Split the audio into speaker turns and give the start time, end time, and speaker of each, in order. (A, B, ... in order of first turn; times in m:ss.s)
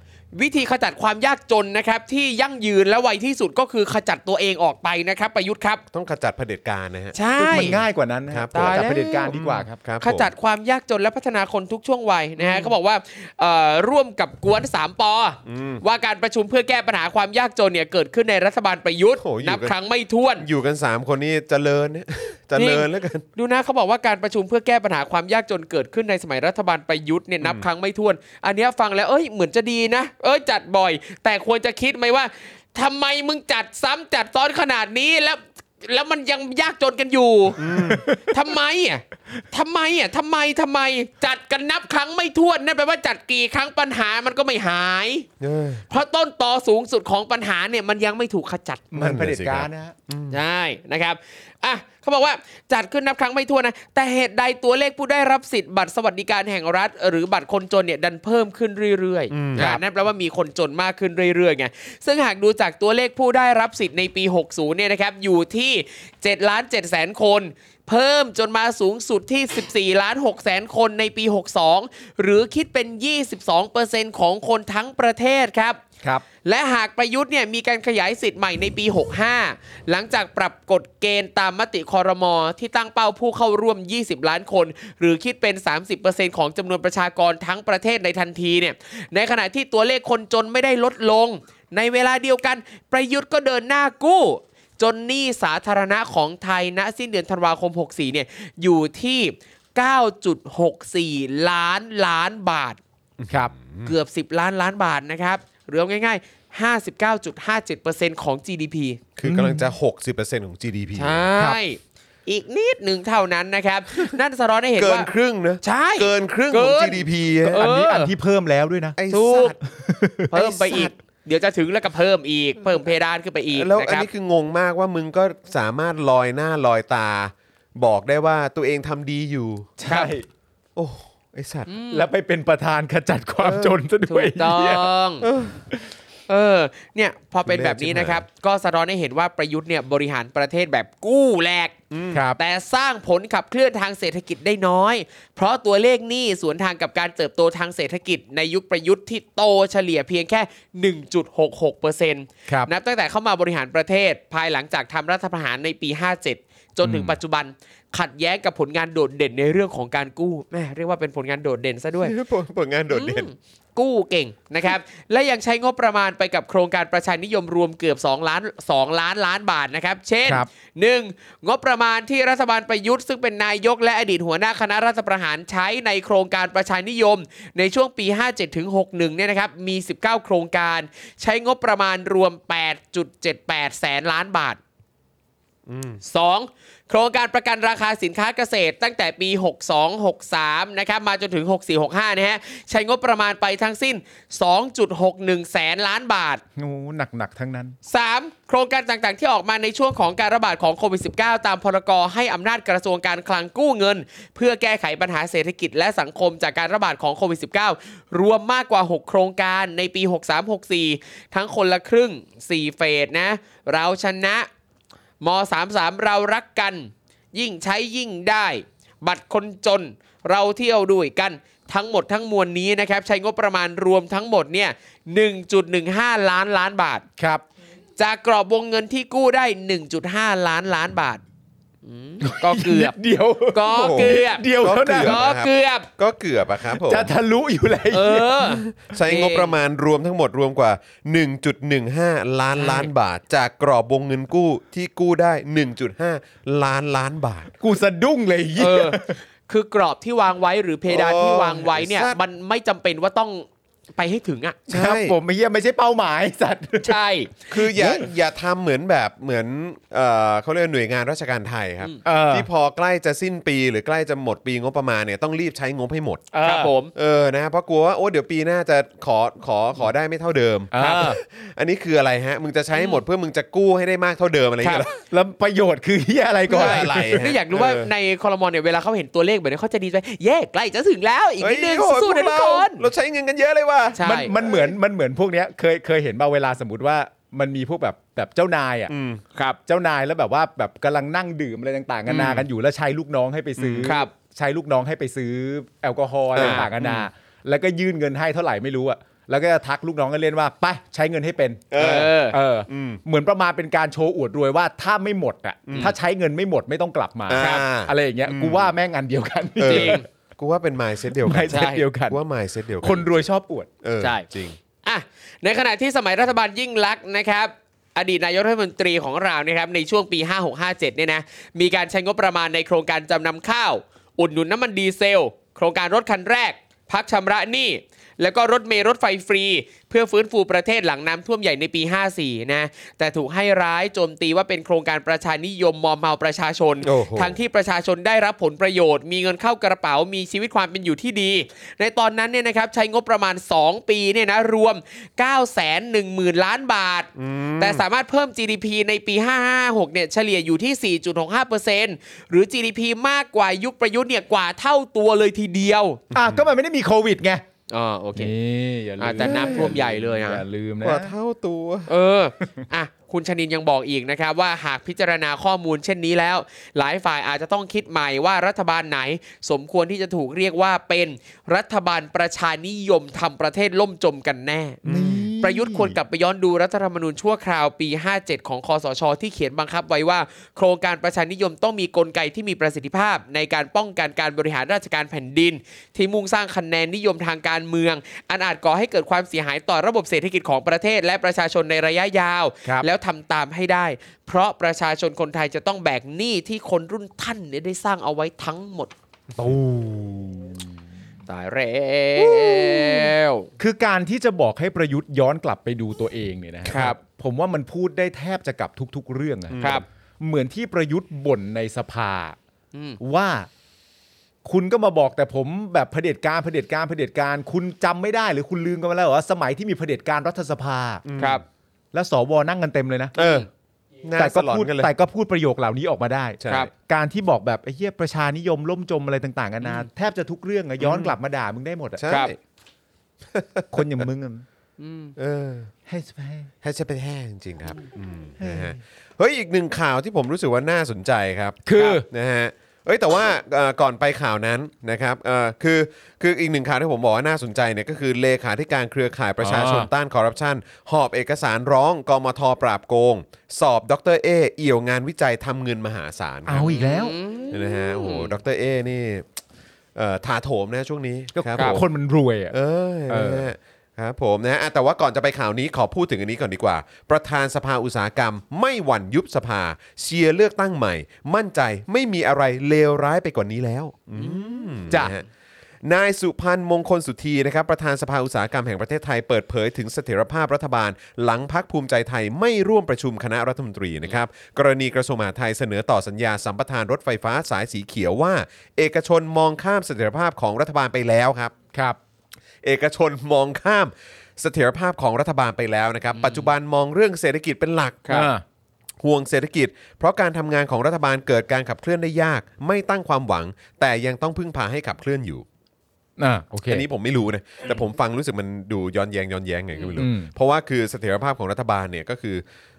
0:00.3-0:05.8 A
0:05.9-0:07.1 B
0:07.1-0:07.8 A
0:07.4-0:09.8 C
0:08.3-0:10.3 B
0:08.5-0:09.4 A
0:10.0-0:20.4 A
0:15.4-0:15.8 B
0:19.2-0:19.7 B
0:20.4-0:23.2 B
0:22.6-0:45.3 A
0:27.4-0:27.6 B
0:37.6-0:38.0 B
0:37.7-0:38.3 C
0:45.4-0:45.8 B
0:45.9-0:48.9 A
0:48.9-0:49.9 C
0:48.9-0:50.4 B
0:50.3-1:15.8 A
0:59.3-0:59.8 B
1:16.4-1:42.8 A
1:43.2-1:43.9 B
1:43.8-1:49.0 A
1:49.2-1:51.3 B
1:49.2-1:49.7 C
1:51.0-1:55.1 A
1:54.8-1:57.6 B
1:55.6-1:58.1 A
1:57.4-1:59.0 C
1:59.0-1:59.6 B
1:59.1-1:59.6 A
1:59.6-2:00.9 C
2:00.3-2:04.1 A
2:03.5-2:09.7 B
2:09.8-2:10.2 C
2:09.8-2:10.1 A
2:10.8-2:11.7 B
2:11.7-2:12.1 A
2:11.9-2:14.9 C
2:13.4-2:13.8 B
2:14.1-2:15.3 A
2:15.2-2:15.6 B
2:16.3-2:21.7 A
2:17.5-2:18.2 B
2:21.9-2:22.2 B
2:22.1-2:22.4 C
2:22.4-2:42.1 A
2:36.8-2:37.2 C
2:42.0-2:43.3 B
2:42.9-3:04.6 A
3:05.7-3:06.0 B
3:06.0-3:16.4 A
3:16.6-3:17.8 C
3:17.8-3:34.5 A
3:35.2-3:47.0 A
3:47.2-3:47.4 C
3:48.0-3:51.2 A
3:51.8-3:53.0 A
3:52.2-3:55.2 C
3:53.5-3:55.9 A
3:53.7-3:57.1 B
3:56.8-3:58.4 C
3:57.9-3:59.5 A
3:58.4-4:07.5 B
4:02.6-4:02.9 A
4:07.6-4:09.2 C
4:08.6-4:14.6 A
4:10.9-4:12.2 B
4:14.7-4:15.2 B
4:14.7-4:17.0 C
4:16.8-4:17.9 A
4:17.5-4:26.3 B
4:22.0-4:22.5 C
4:26.3-4:26.7 C
4:26.4-4:26.9 A
4:26.9-4:35.0 B
4:30.7-4:31.2 C
4:30.8-4:31.2 A
4:32.8-4:33.0 A
4:34.6-4:34.9 A
4:35.1-4:37.3 C
4:36.5-4:37.9 B
4:36.5-4:42.8 A
4:41.4-4:44.5 B
4:43.9-4:44.3 A
4:44.0-4:48.9 C
4:48.9-4:49.2 B
4:49.7-5:10.0 C
4:52.1-4:52.4 A
4:53.6-4:53.9 B
4:53.8-4:54.1 A
4:56.3-4:57.0 B
4:56.4-4:56.7 A
5:01.7-5:02.2 B
5:01.8-5:02.4 A
5:02.7-5:03.0 B
5:05.7-5:05.9 B
5:07.3-5:08.7 B
5:07.4-5:07.7 A
5:09.6-5:13.2 B
5:09.6-5:10.0 A
5:11.2-5:12.2 C
5:11.5-5:11.8 A
5:12.8-5:13.7 C
5:13.8-5:14.6 B
5:14.0-5:14.2 A
5:14.8-5:56.0 A
5:36.8-5:37.4 B
5:47.2-5:47.8 B
5:56.1-5:56.4 B
5:56.1-5:57.4 C
5:57.7-5:58.3 A
5:58.2-6:01.1 C
5:59.0-6:00.4 A
5:59.2-5:59.8 B
6:00.8-6:01.9 B
6:01.9-6:14.9 A
6:14.8-6:15.3 B
6:14.9-6:16.0 C
6:15.4-6:38.9 A
6:39.4-6:40.7 C
6:41.3-6:43.5 A
6:42.2-6:49.6 C
6:46.7-6:47.0 A
6:49.5-6:49.8 B
6:49.6-6:49.8 A
6:50.2-6:52.4 C
6:52.7-6:53.0 A
6:53.0-6:53.5 C
6:54.4-7:01.0 C
7:01.0-7:01.4 B
7:01.9-7:03.1 C
7:03.2-7:03.5 B
7:03.2-7:03.5 A
7:04.0-7:04.9 B
7:04.2-7:12.0 C
7:06.4-7:06.7 B
7:09.6-7:09.9 A
7:12.0-7:12.4 B
7:12.1-7:12.3 A
7:13.3-7:14.0 B
7:13.7-7:14.4 C
7:14.8-7:15.1 A
7:15.2-7:15.7 B
7:15.9-7:16.5 C
7:16.6-7:36.8 B
7:18.4-7:18.8 C
7:21.6-7:22.0 C
7:21.8-7:22.0 A
7:29.4-7:29.9 C
7:36.4-7:37.2 C
7:36.7-7:38.3 A
7:37.5-7:39.3 B
7:39.9-7:41.8 B
7:41.3-7:42.5 C
7:42.5-7:55.2 B
7:43.1-7:43.5 C
7:54.2-7:55.2 A
7:55.8-8:11.5 B
8:12.6-8:18.1 B
8:16.1-8:16.5 A
8:18.0-8:18.3 A
8:18.1-8:18.4 C
8:19.0-8:25.4 B
8:26.2-8:26.9 C
8:26.7-8:32.4 B
8:29.7-8:30.0 A
8:30.0-8:30.3 C